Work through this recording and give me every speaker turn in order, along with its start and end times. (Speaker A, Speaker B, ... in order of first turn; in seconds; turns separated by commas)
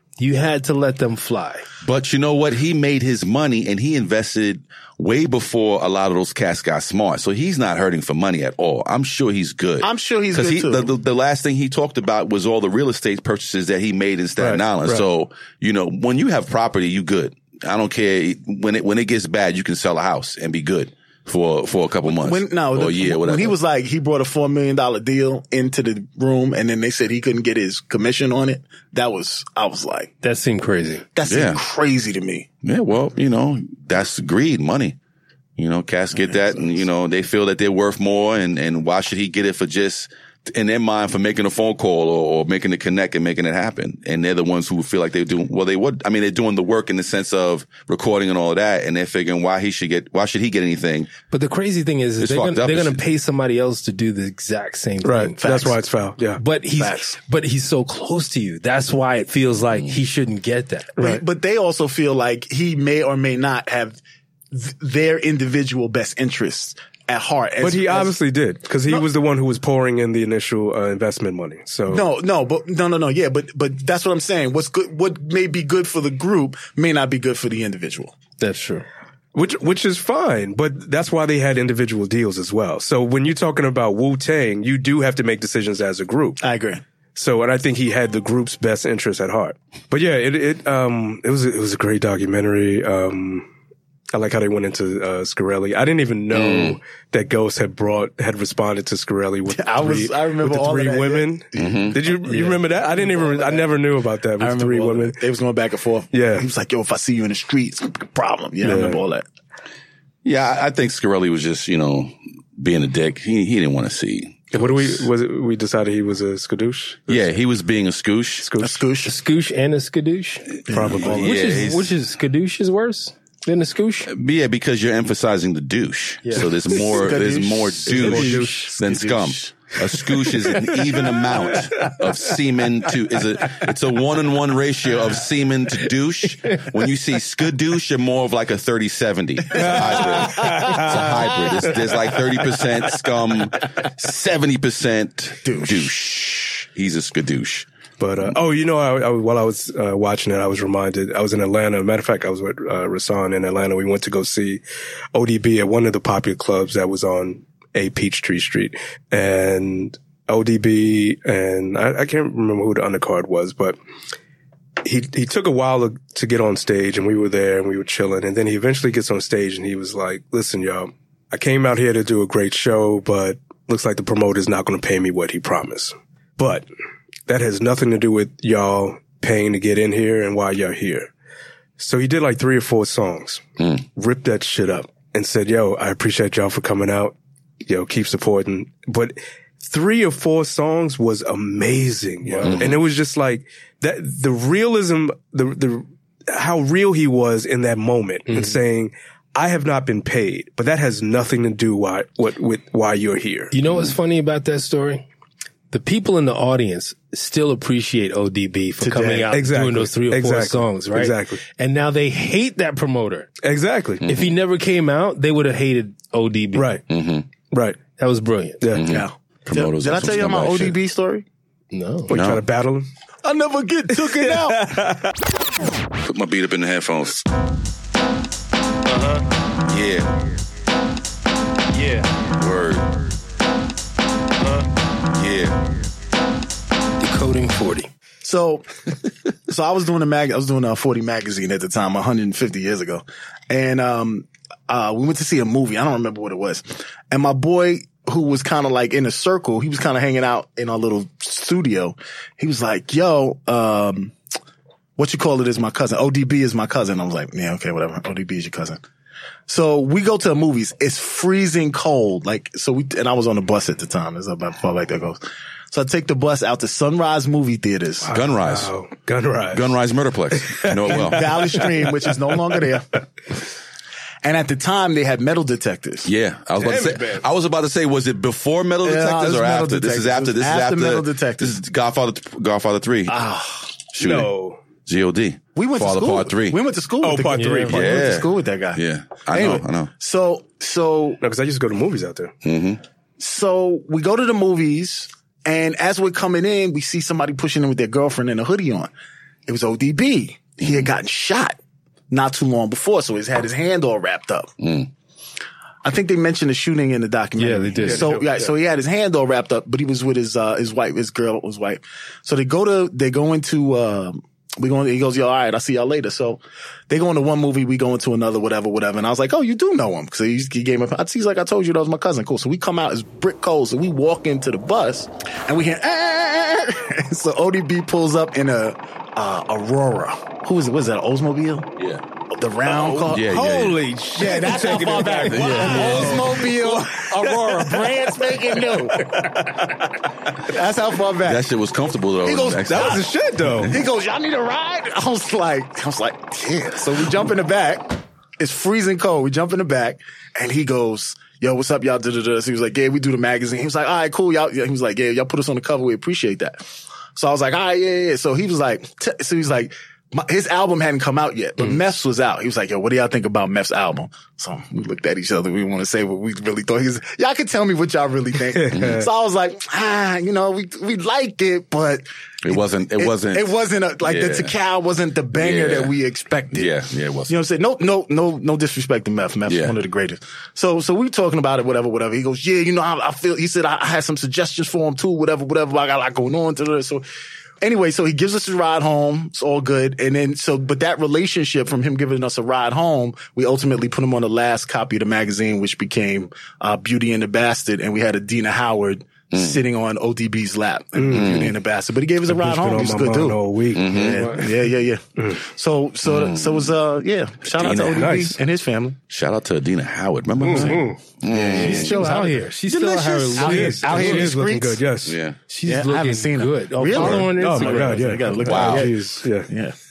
Speaker A: 0.2-1.7, Speaker B: 1.8-23.6, Speaker C: 9.8-10.9, Speaker D: 14.4-15.0, Speaker C: 22.1-30.1, Speaker A: 30.2-31.1, Speaker C: 31.1-32.5, Speaker B: 31.2-31.6, Speaker B: 32.6-35.0, Speaker B: 35.6-51.1, Speaker A: 51.3-55.4, Speaker B: 52.2-53.0, Speaker D: 55.0-56.4, Speaker C: 55.4-55.8, Speaker A: 56.4-60.9, Speaker C: 56.7-57.2, Speaker B: 59.7-60.0, Speaker C: 61.0-64.0, Speaker D: 61.0-61.2, Speaker C: 64.5-68.1, Speaker D: 67.6-72.1, Speaker C: 71.9-78.1, Speaker A: 78.4-78.9, Speaker D: 79.3-86.4, Speaker C: 86.4-86.8, Speaker D: 87.1-93.5, Speaker D: 94.1-105.2, Speaker B: 96.3-96.8, Speaker C: 99.5-103.7, Speaker B: 101.6-102.0, Speaker C: 104.4-109.2, Speaker D: 106.1-106.5, Speaker D: 108.6-109.0, Speaker B: 110.2-115.1, Speaker D: 114.5-117.3, Speaker B: 117.1-118.5, Speaker D: 118.4-118.8, Speaker C: 118.6-119.2, Speaker A: 119.0-124.1, Speaker B: 120.7-121.9, Speaker C: 120.7-121.1, Speaker D: 120.7-121.5, Speaker B: 124.1-147.7, Speaker C: 126.7-129.6, Speaker D: 127.9-128.7, Speaker D: 139.5-141.5, Speaker C: 145.4-145.9, Speaker D: 148.0-154.6, Speaker D: 155.1-163.8, Speaker D: 164.8-176.7, Speaker D: 177.3-181.1, Speaker D: 181.8-183.4, Speaker D: 183.9-203.5, Speaker A: 192.2-192.6, Speaker B: 192.4-192.8, Speaker A: 198.3-198.6, Speaker A: 203.5-205.1, Speaker A: 205.7-213.3, Speaker C: 208.8-209.3, Speaker D: 209.3-211.4, Speaker D: 213.4-214.0, Speaker B: 214.0-214.3, Speaker A: 214.0-216.8, Speaker D: 216.6-216.8, Speaker B: 216.9-217.3, Speaker D: 217.5-217.8, Speaker A: 218.0-218.6, Speaker D: 218.6-218.9, Speaker B: 218.7-220.8, Speaker C: 218.8-221.2, Speaker A: 221.7-222.1, Speaker D: 222.1-222.9, Speaker B: 222.1-222.4, Speaker C: 223.2-224.7, Speaker D: 223.9-225.1, Speaker B: 226.0-227.2, Speaker B: 229.7-230.1, Speaker A: 231.7-232.1, Speaker B: 232.3-232.9, Speaker B: 235.1-235.6, Speaker A: 237.0-237.9, Speaker C: 238.2-238.7, Speaker C: 239.5-254.1, Speaker C: 255.0-258.8, Speaker C: 259.5-265.2, Speaker C: 265.7-268.1, Speaker D: 268.0-269.7, Speaker B: 268.1-268.7, Speaker B: 269.5-271.4, Speaker D: 270.3-272.0, Speaker C: 270.9-273.0, Speaker C: 274.2-276.1, Speaker B: 276.0-283.2, Speaker D: 276.6-277.2, Speaker C: 278.8-281.6, Speaker C: 283.1-283.7, Speaker B: 283.9-284.3, Speaker D: 284.0-284.6, Speaker B: 284.9-286.6, Speaker C: 285.6-291.2, Speaker D: 287.0-287.9, Speaker A: 287.3-287.7, Speaker B: 287.7-289.9, Speaker D: 291.2-292.3, Speaker B: 292.4-292.8, Speaker C: 293.2-298.9, Speaker C: 299.4-301.6, Speaker B: 300.6-300.9, Speaker C: 302.1-304.5, Speaker B: 304.6-304.9, Speaker C: 305.8-331.7, Speaker A: 307.4-308.2, Speaker D: 307.8-308.5, Speaker B: 331.8-332.0, Speaker C: 332.3-333.3, Speaker B: 332.7-333.8, Speaker D: 332.9-337.9, Speaker C: 334.1-339.4, Speaker B: 335.3-336.1, Speaker A: 335.5-336.1, Speaker B: 336.9-337.6, Speaker C: 340.4-341.4, Speaker B: 341.2-343.0, Speaker C: 342.2-356.6, Speaker D: 342.7-343.8, Speaker C: 357.1-376.7, Speaker D: 368.5-369.1, Speaker B: 368.7-369.0, Speaker B: 372.4-374.6, Speaker B: 375.3-376.0, Speaker B: 376.5-377.4, Speaker C: 377.3-387.1, Speaker B: 379.4-379.8, Speaker C: 387.6-409.0, Speaker B: 399.3-399.6, Speaker D: 400.9-401.4, Speaker B: 401.1-401.6, Speaker D: 402.3-404.1, Speaker B: 403.7-404.3, Speaker A: 404.1-404.4, Speaker B: 406.1-406.7, Speaker B: 407.5-408.2, Speaker D: 407.6-408.4, Speaker B: 409.1-412.0, Speaker D: 410.4-411.0, Speaker C: 410.5-410.8, Speaker C: 411.3-414.8, Speaker A: 411.5-414.4, Speaker D: 413.4-415.2, Speaker B: 415.1-415.4, Speaker A: 415.5-418.3, Speaker C: 415.7-419.7, Speaker D: 416.9-419.5, Speaker B: 418.4-418.9